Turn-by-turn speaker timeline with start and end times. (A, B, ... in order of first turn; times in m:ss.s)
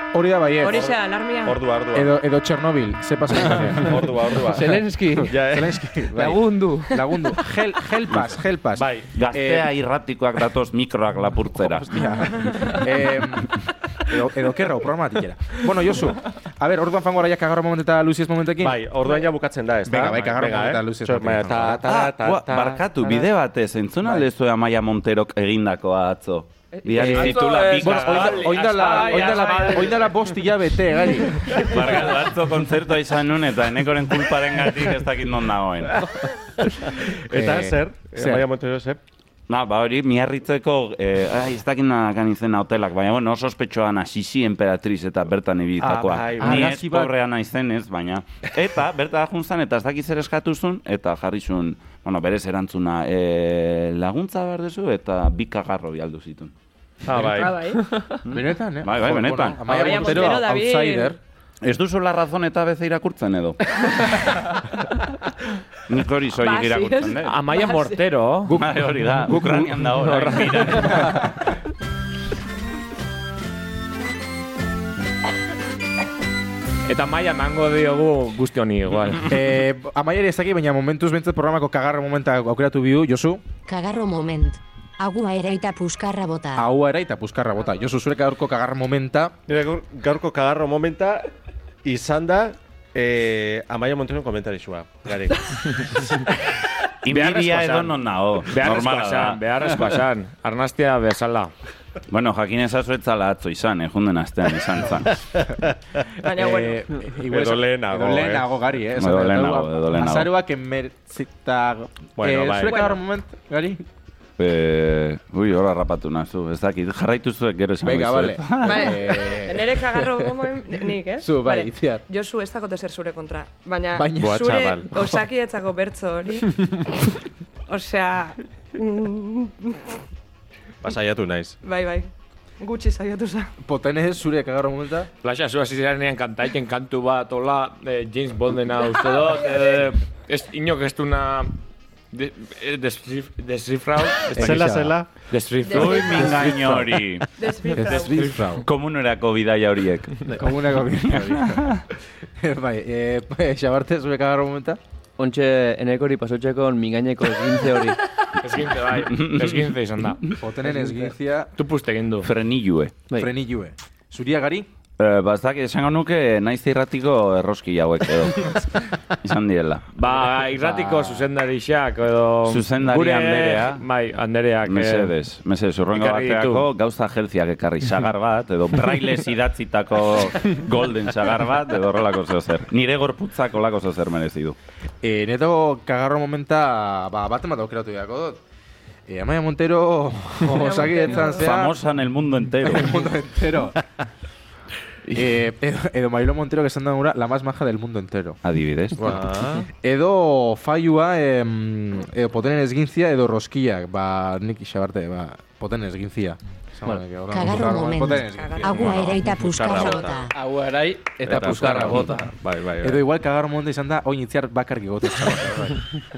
0:00.1-0:00.9 A
0:00.6-0:01.6 B
0:00.7-0:02.1 C
0:01.9-0:04.1 A
0:03.7-0:06.0 C
0:04.5-0:05.3 D
0:05.3-0:09.7 A
0:06.1-0:06.9 D
0:08.1-0:08.4 E
0:08.8-0:09.1 C
0:09.1-0:12.0 E
0:11.5-0:18.8 A
0:18.6-0:23.3 C
0:19.9-0:21.8 A
0:21.8-0:29.4 E
0:26.8-0:27.1 B
0:27.0-0:31.5 A
0:27.0-0:30.1 F
0:31.5-0:36.2 E
0:37.0-0:39.0 C
0:37.3-0:38.4 A
0:39.5-0:56.5 E
0:45.8-0:46.7 C
0:46.4-0:47.1 A
0:57.1-0:57.6 C
0:57.2-0:58.2 F
0:57.3-0:57.8 B
0:58.3-1:00.3 E
0:58.3-1:01.2 A
0:59.7-1:01.2 B
1:01.6-1:04.1 E
1:05.9-1:07.4 E
1:06.4-1:08.0 B
1:07.2-1:08.6 F
1:08.5-1:11.2 E
1:08.5-1:09.5 A
1:10.2-1:11.1 D
1:16.9-1:19.4 F
1:19.3-1:23.4 A
1:23.7-1:26.7 G
1:26.6-1:29.3 A
1:29.5-1:31.3 C
1:31.8-1:36.1 C
1:37.0-1:40.0 E
1:37.1-1:41.5 F
1:42.1-1:45.2 E
1:46.2-1:46.8 B
1:46.3-1:53.8 A
1:47.2-1:48.4 C
1:48.9-1:50.3 E
1:52.2-1:52.8 C
1:52.6-1:53.0 B
1:54.4-1:59.0 E
1:57.8-2:00.4 A
1:58.6-2:07.1 B
2:01.2-2:02.0 A
2:04.0-2:04.5 A
2:04.2-2:04.9 C
2:07.7-2:09.9 B
2:10.8-2:11.6 C
2:11.6-2:12.1 B
2:12.6-2:13.5 B
2:13.6-2:15.1 A
2:15.2-2:21.5 F
2:22.1-2:24.6 F
2:24.3-2:25.3 C
2:24.4-2:25.0 A
2:25.3-2:26.8 F
2:25.7-2:27.3 E
2:25.7-2:26.4 B
2:27.4-2:28.3 B
2:27.8-2:28.6 A
2:28.5-2:30.2 E
2:30.3-2:31.8 A
2:31.1-2:31.8 E
2:32.4-2:34.8 A
2:35.2-2:38.0 D
2:38.4-2:40.2 F
2:38.9-2:40.1 E
2:40.4-2:41.5 A
2:41.6-2:42.3 F
2:42.2-2:43.0 E
2:43.1-2:44.7 A
2:45.0-2:48.7 E
2:49.2-2:49.9 E
2:50.0-2:55.1 F
2:50.7-2:51.2 E
2:52.4-2:53.8 E
2:54.6-3:04.6 E
2:55.9-2:56.7 F
3:05.0-3:08.4 A
3:09.1-3:11.7 A
3:10.5-3:11.6 B
3:11.2-3:13.0 E
3:12.6-3:13.8 A
3:15.1-3:18.4 A
3:18.4-3:19.3 E
3:19.0-3:29.4 A
3:19.0-3:19.7 C
3:27.3-3:30.3 G
3:28.2-3:29.0 B
3:28.7-3:30.3 C
3:29.7-3:30.1 B
3:30.3-3:32.3 D
3:31.3-3:33.0 C
3:31.3-3:32.2 A
3:32.8-3:35.9 A